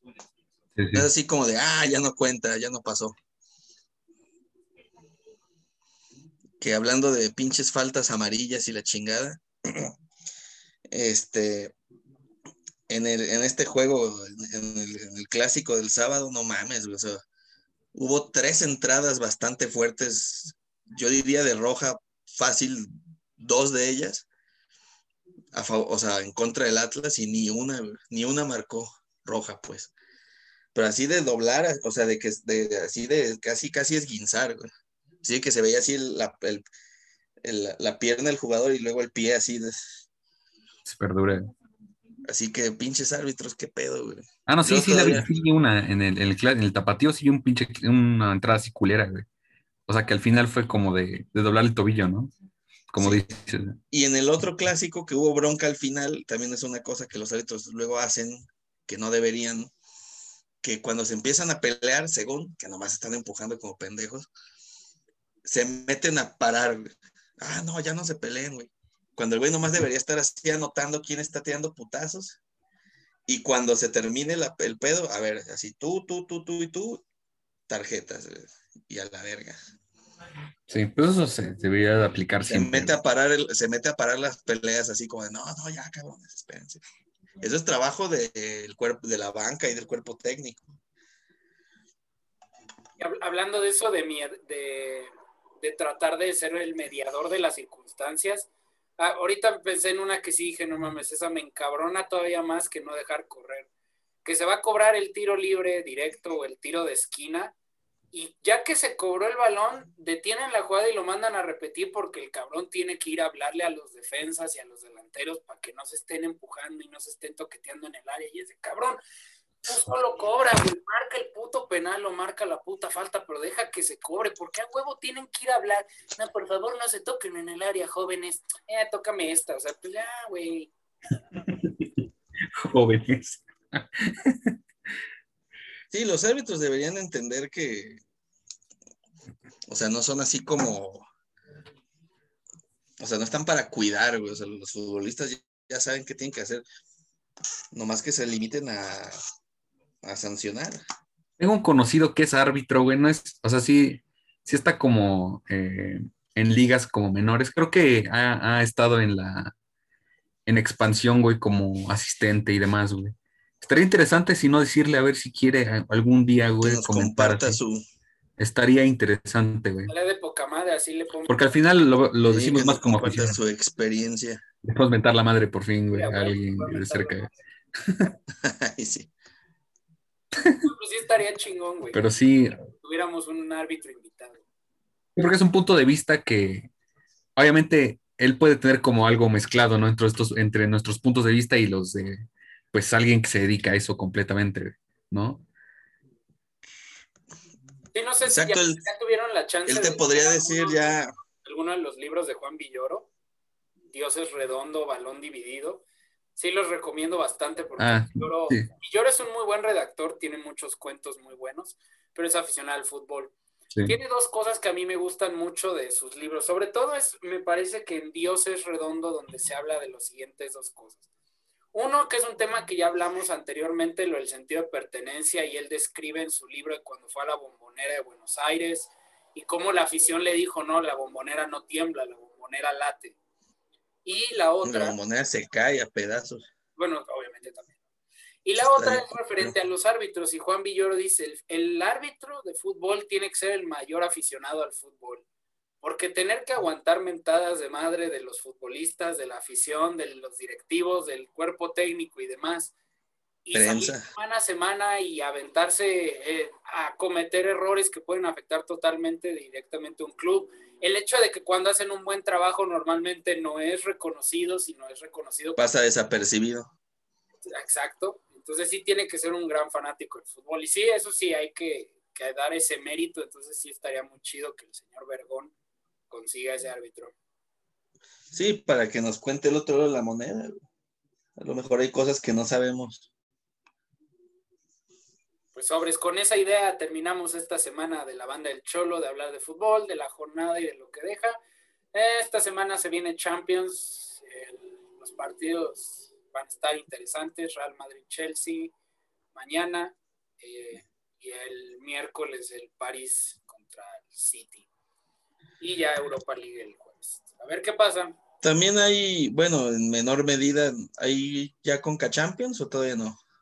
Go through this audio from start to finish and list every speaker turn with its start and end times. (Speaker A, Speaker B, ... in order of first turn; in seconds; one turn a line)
Speaker A: 0.8-1.1
Speaker B: 0.9-3.1
Speaker B: 6.6-9.9
Speaker B: 10.9-11.7
Speaker B: 12.9-17.2
Speaker B: 17.9-24.2
Speaker B: 25.5-29.9
Speaker B: 30.7-34.7
Speaker B: 35.2-36.6
Speaker B: 37.4-40.0
Speaker A: 40.9-41.5
Speaker B: 42.3-45.3
Speaker A: 44.5-49.2
Speaker A: 49.9-52.3
Speaker A: 52.9-53.8
Speaker B: 53.0-53.2
Speaker B: 53.9-59.7
Speaker B: 60.6-64.3
Speaker B: 65.4-72.4
Speaker B: 73.3-77.0
Speaker B: 77.7-79.6
Speaker A: 80.7-82.9
Speaker B: 82.5-86.8
Speaker B: 87.4-90.6
Speaker C: 93.0-103.7
Speaker C: 104.2-107.5
Speaker C: 108.1-119.0
Speaker C: 119.6-130.7
Speaker A: 131.4-131.8
Speaker A: 132.5-134.6
Speaker B: 135.9-138.0
Speaker B: 139.7-141.1
Speaker B: 143.0-146.6
Speaker B: 147.7-149.2
Speaker B: 150.0-150.8
Speaker A: 151.4-159.5
Speaker A: 160.4-167.6
Speaker B: 166.6-167.8
Speaker A: 168.4-169.9
Speaker C: 169.9-171.5
Speaker A: 171.3-173.4
Speaker B: 172.2-174.4
Speaker A: 174.6-177.3
Speaker C: 175.9-177.3
Speaker B: 178.4-179.1
Speaker C: 180.6-182.0
Speaker A: 181.9-182.6
Speaker C: 182.8-184.4
Speaker A: 185.2-186.7
Speaker A: 187.3-195.4
Speaker C: 197.9-203.1
Speaker B: 198.2-198.8
Speaker B: 199.7-201.1
Speaker C: 203.9-205.8
Speaker C: 206.3-213.3
Speaker A: 207.8-208.7
Speaker C: 213.9-221.0
Speaker C: 221.7-233.2
Speaker C: 234.0-235.0
Speaker B: 234.6-236.4
Speaker C: 236.8-237.8
Speaker C: 238.4-245.2
Speaker B: 238.6-239.5
Speaker C: 245.8-252.7
Speaker C: 253.4-265.6
Speaker B: 253.5-254.1
Speaker B: 265.6-266.7
Speaker C: 267.4-275.5
Speaker C: 276.1-277.1
Speaker B: 278.3-280.6
Speaker B: 281.4-283.1
Speaker C: 285.5-291.4
Speaker C: 291.9-298.7
Speaker C: 299.3-304.7
Speaker C: 305.6-308.2
Speaker B: 308.4-313.2